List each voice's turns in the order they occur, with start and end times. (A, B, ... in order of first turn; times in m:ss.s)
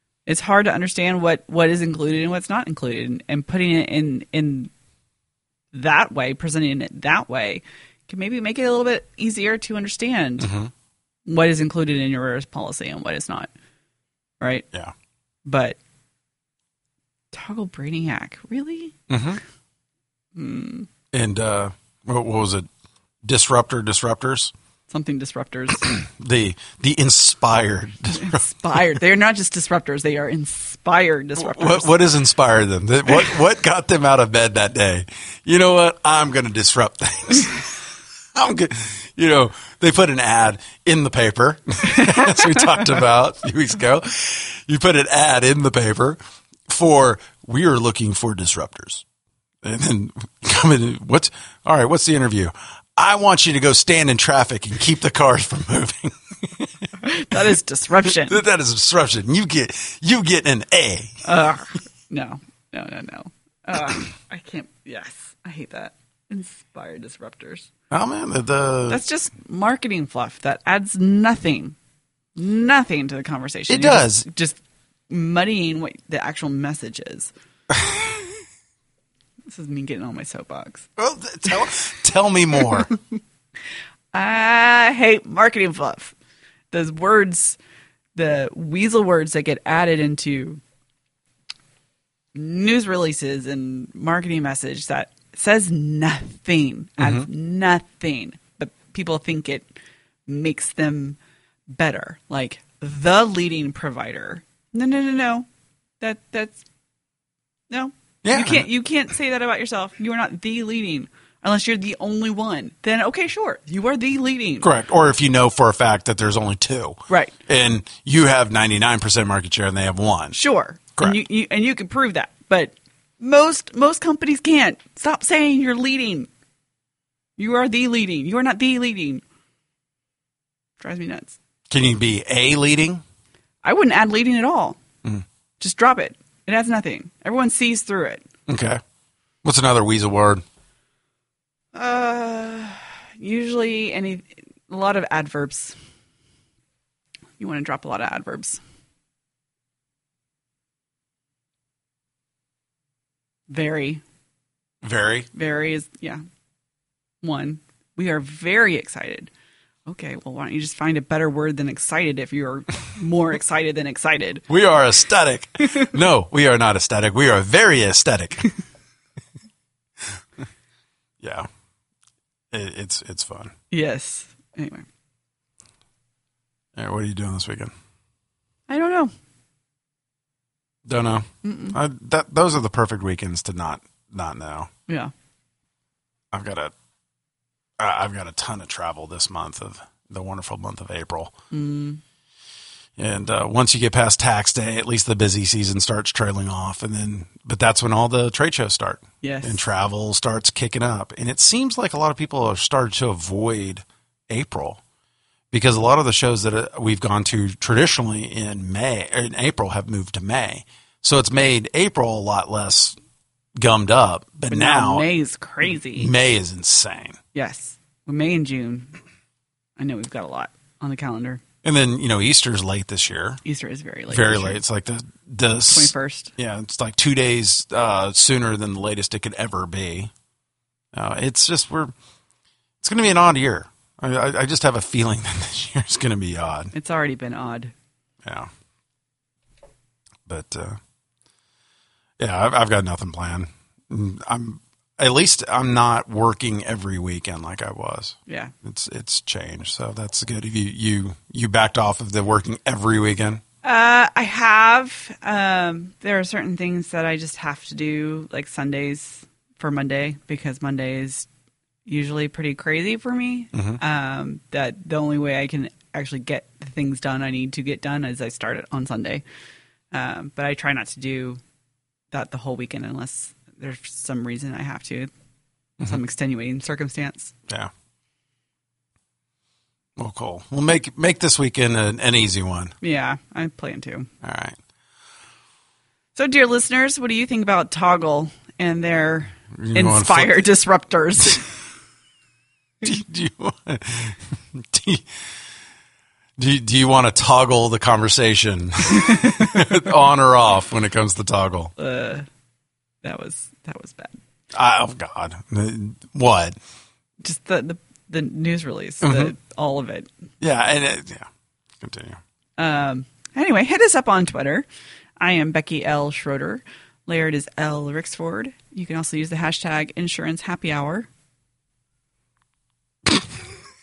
0:00.2-0:04.7 A
0:05.7-0:10.5 A
0:10.4-0:10.7 B
0:11.2-0:13.5 A
0:14.4-0:14.6 A
0:15.4-0:15.8 A
0:17.3-0:18.9 A
0:19.1-0:19.4 B
0:20.3-0:20.9 A
0:21.1-0:22.7 B
0:23.2-0:24.5 B
0:24.9-0:25.9 A
0:25.8-0:28.8 B
0:28.1-0:31.9 A
0:31.4-0:49.0 B
0:42.3-0:42.6 A
0:49.6-0:57.4 B
0:57.0-0:58.4 A
0:58.0-1:01.2 B
1:01.2-1:07.7 A
1:07.9-1:09.0 B
1:08.9-1:11.8 A
1:12.4-1:18.1 A
1:13.7-1:14.2 B
1:19.5-1:20.9 A
1:21.0-1:22.9 B
1:24.1-1:26.1 A
1:26.7-1:27.6 A
1:28.1-1:30.6 A
1:32.3-1:39.7 A
1:37.0-1:37.3 B
1:40.3-1:45.5 A
1:46.0-1:46.6 A
1:47.7-1:54.7 A
1:48.2-1:48.7 B
1:54.6-2:00.4 B
1:57.1-1:57.3 A
2:00.3-2:06.3 A
2:07.4-2:09.2 A
2:10.8-2:11.4 A
2:11.7-2:13.0 B
2:13.6-2:14.8 A
2:15.6-2:18.2 A
2:18.5-2:18.8 B
2:19.4-2:20.4 B
2:21.7-2:25.8 A
2:27.4-2:28.6 A
2:33.5-2:34.0 A
2:34.8-2:35.3 B
2:35.3-2:36.2 A
2:37.2-2:39.3 A
2:39.9-2:44.4 A
2:44.5-2:48.4 B
2:45.6-2:45.9 A
2:51.2-2:51.5 B
2:52.5-2:53.5 B
2:53.7-2:54.8 A
2:56.8-2:57.7 B
2:58.7-2:59.1 A
3:00.8-3:04.7 B
3:01.4-3:01.8 A
3:06.3-3:06.7 B
3:07.8-3:11.3 B
3:11.5-3:12.0 A
3:13.0-3:24.8 B
3:19.2-3:19.6 A
3:25.5-3:33.0 B
3:33.6-3:35.0 B
3:34.5-3:36.1 A
3:35.6-3:37.2 B
3:37.3-3:38.9 A
3:39.8-3:41.4 A
3:41.6-3:43.4 B
3:43.4-3:44.6 A
3:44.1-3:50.1 B
3:45.7-3:46.3 A
3:50.9-3:51.9 B
3:52.8-3:56.7 B
3:56.7-3:57.7 A
4:00.2-4:00.8 B
4:02.2-4:13.4 B
4:08.3-4:08.5 A
4:13.6-4:21.3 A
4:21.8-4:29.2 A
4:23.5-4:23.8 B
4:29.9-4:31.4 A
4:32.1-4:35.1 A
4:35.8-4:37.3 A
4:40.0-4:42.7 B
4:42.8-4:44.1 A
4:44.2-4:44.6 B
4:46.1-4:51.5 A
4:49.5-4:50.4 B
4:52.8-4:55.1 B
4:56.4-5:01.7 B
4:58.9-4:59.8 A
5:01.8-5:02.3 A
5:03.0-5:04.2 A
5:04.5-5:06.6 B
5:07.2-5:10.1 A
5:09.0-5:09.3 B
5:10.4-5:11.3 B
5:11.8-5:12.2 B
5:12.6-5:14.7 A
5:15.2-5:21.1 A